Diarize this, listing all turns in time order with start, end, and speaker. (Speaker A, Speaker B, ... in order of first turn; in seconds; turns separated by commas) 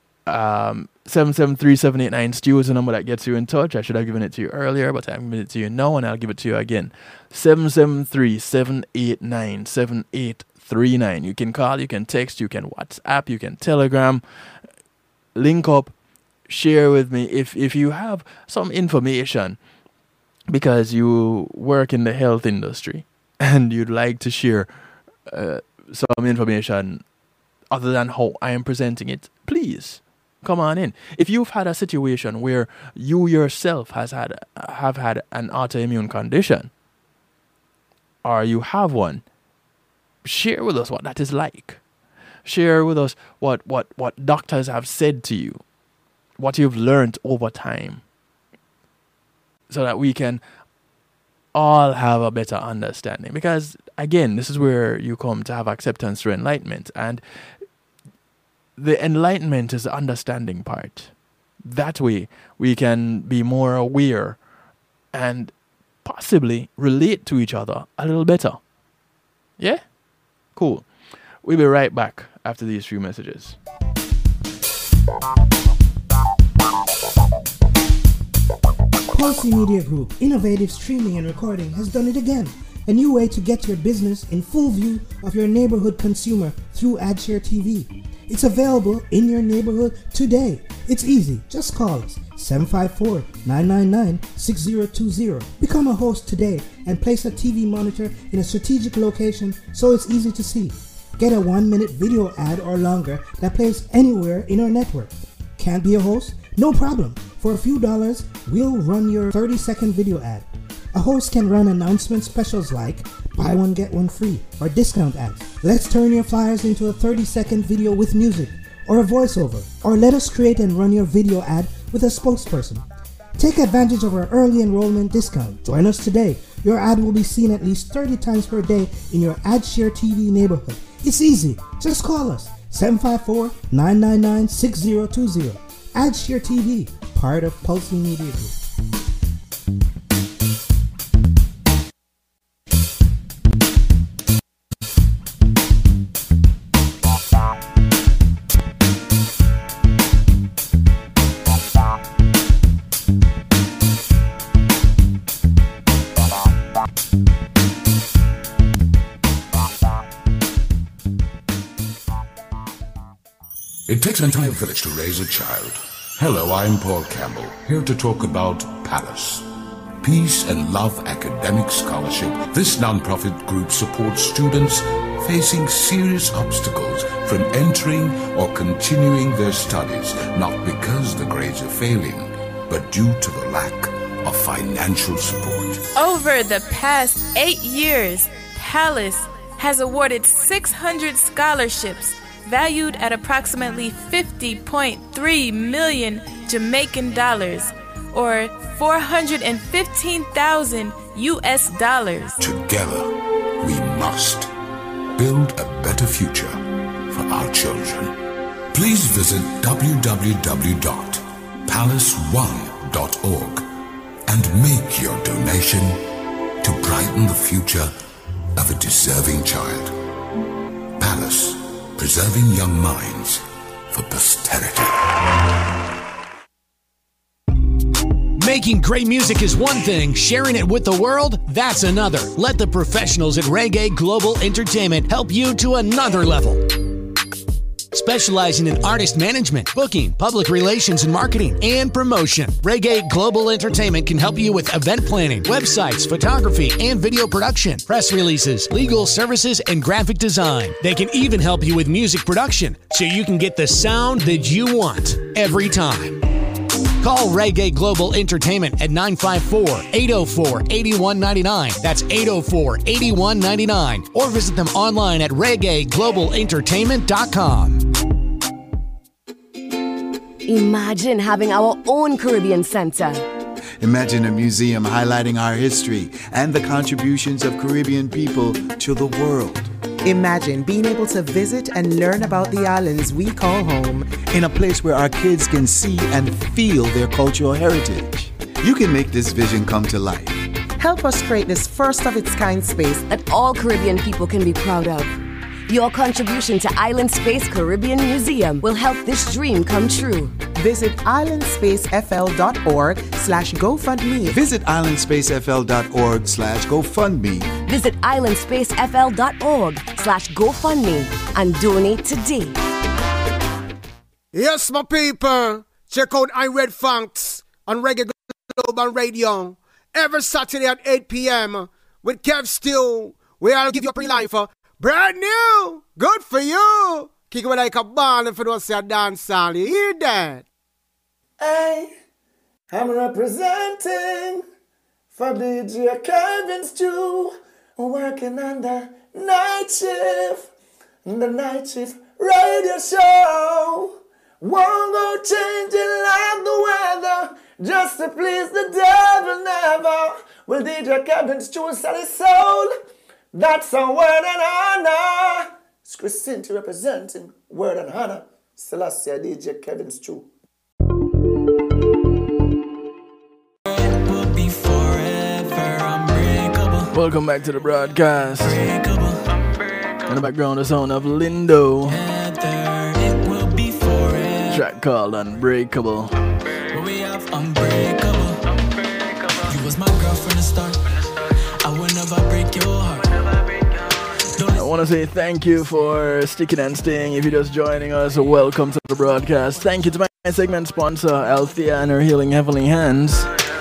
Speaker A: 0.3-14.2, Speaker A: 15.3-15.9, Speaker A: 16.5-19.6, Speaker A: 20.5-24.7, Speaker A: 25.3-27.0, Speaker A: 27.7-36.7, Speaker A: 38.2-39.2, Speaker A: 40.2-41.8, Speaker A: 42.5-45.6, Speaker A: 46.4-48.0, Speaker A: 49.7-50.4, Speaker A: 51.5-57.2, Speaker A: 58.8-61.1, Speaker A: 61.6-64.4, Speaker A: 65.1-65.5, Speaker A: 66.0-68.6, Speaker A: 70.6-70.9, Speaker A: 71.4-73.6, Speaker B: 79.1-122.8, Speaker B: 123.4-138.6, Speaker C: 163.9-169.5, Speaker C: 170.0-185.9, Speaker D: 185.9-202.4, Speaker C: 202.4-204.5, Speaker C: 205.2-208.2, Speaker C: 208.7-213.7, Speaker C: 214.3-216.0, Speaker C: 216.6-217.9, Speaker C: 218.6-219.9, Speaker C: 221.0-225.1, Speaker E: 228.4-236.7, Speaker E: 237.9-256.2, Speaker E: 257.0-267.9, Speaker F: 270.4-273.3, Speaker G: 273.8-279.7, Speaker H: 280.0-284.3, Speaker G: 284.2-290.5, Speaker H: 290.8-293.0, Speaker F: 293.1-295.2, Speaker F: 295.7-300.4, Speaker H: 300.5-304.4, Speaker G: 304.3-307.6, Speaker F: 307.6-312.6, Speaker I: 314.3-330.4, Speaker J: 331.4-331.9, Speaker J: 332.7-334.4, Speaker J: 335.1-340.5, Speaker J: 341.1-352.7, Speaker J: 353.3-360.3, Speaker K: 363.7-366.9, Speaker A: 366.9-368.6, Speaker K: 368.4-370.2, Speaker A: 370.1-372.0, Speaker K: 371.9-374.6, Speaker A: 374.5-376.1, Speaker K: 376.7-378.6, Speaker K: 379.3-380.8, Speaker K: 381.6-384.6, Speaker A: 384.6-393.3